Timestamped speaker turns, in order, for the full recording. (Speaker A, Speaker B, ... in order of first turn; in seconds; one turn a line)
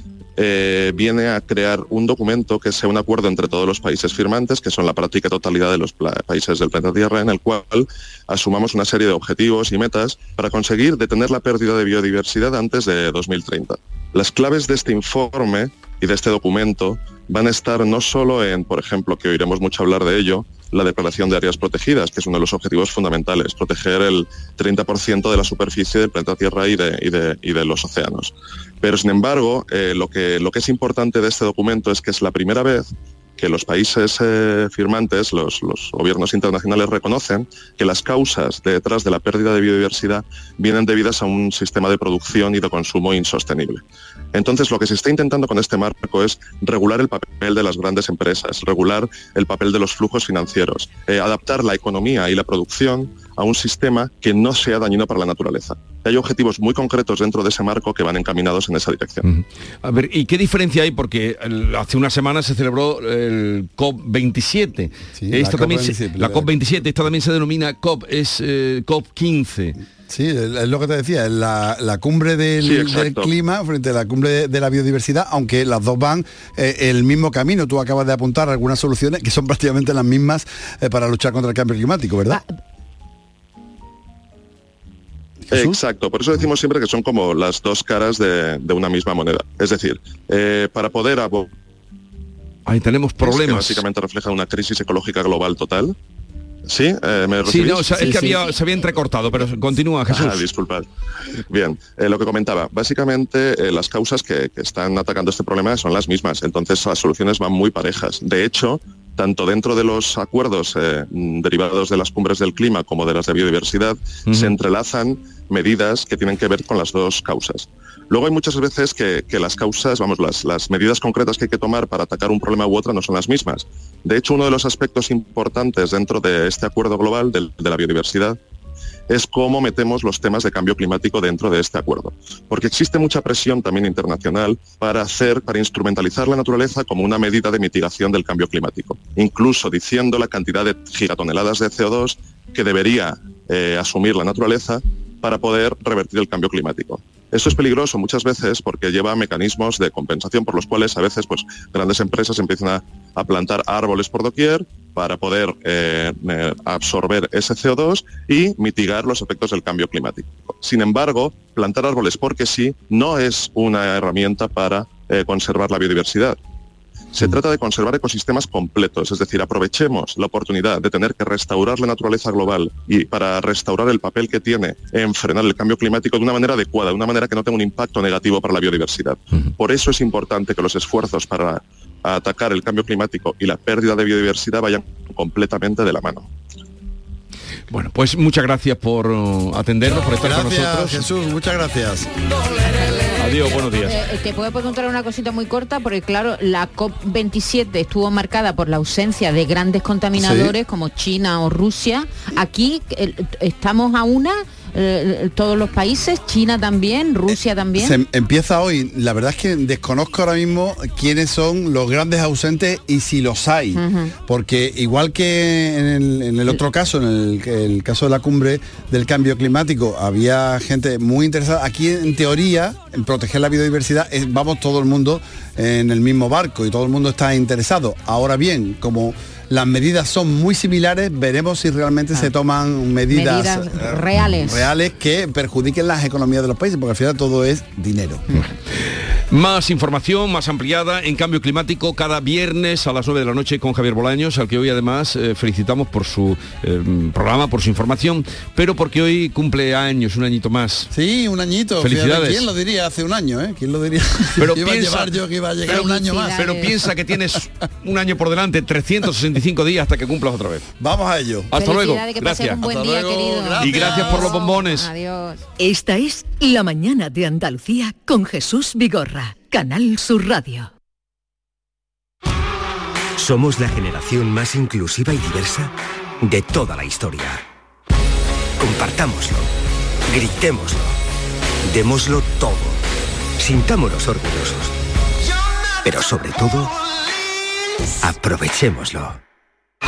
Speaker A: 0.4-43.8
Speaker A: 44.3-59.2
Speaker B: 59.2-69.8
Speaker C: 65.2-66.5
Speaker C: 70.1-82.4
Speaker A: 72.6-73.3
Speaker C: 85.5-85.8
Speaker A: 85.5-91.5
Speaker B: 92.7-93.8
Speaker A: 93.2-96.0
Speaker A: 96.7-98.2
Speaker B: 97.5-100.5
Speaker D: 98.0-98.5
Speaker A: 100.1-100.9
Speaker A: 101.5-128.4
Speaker B: 114.3-114.6
Speaker A: 129.1-166.4
Speaker A: 167.2-186.3
Speaker B: 187.7-191.1
Speaker C: 190.2-192.1
Speaker D: 192.8-193.1
Speaker B: 193.2-194.0
Speaker D: 193.8-208.0
Speaker C: 200.2-200.6
Speaker C: 207.3-238.2
Speaker D: 213.8-214.1
Speaker D: 233.1-234.7
Speaker B: 238.7-250.9
Speaker C: 250.9-256.7
Speaker B: 251.8-252.5
Speaker B: 254.4-255.1
Speaker D: 255.7-256.8
Speaker B: 255.7-260.6
Speaker C: 260.8-261.5
Speaker B: 261.5-262.6
Speaker D: 261.6-265.4
Speaker C: 262.6-264.4
Speaker B: 263.6-264.9
Speaker E: 265.6-270.7
Speaker F: 273.2-275.7
Speaker F: 276.2-277.4
Speaker F: 278.6-279.5
Speaker F: 280.1-280.9
Speaker F: 281.7-282.8
Speaker F: 283.4-284.7
Speaker F: 285.8-286.7
Speaker F: 288.0-289.2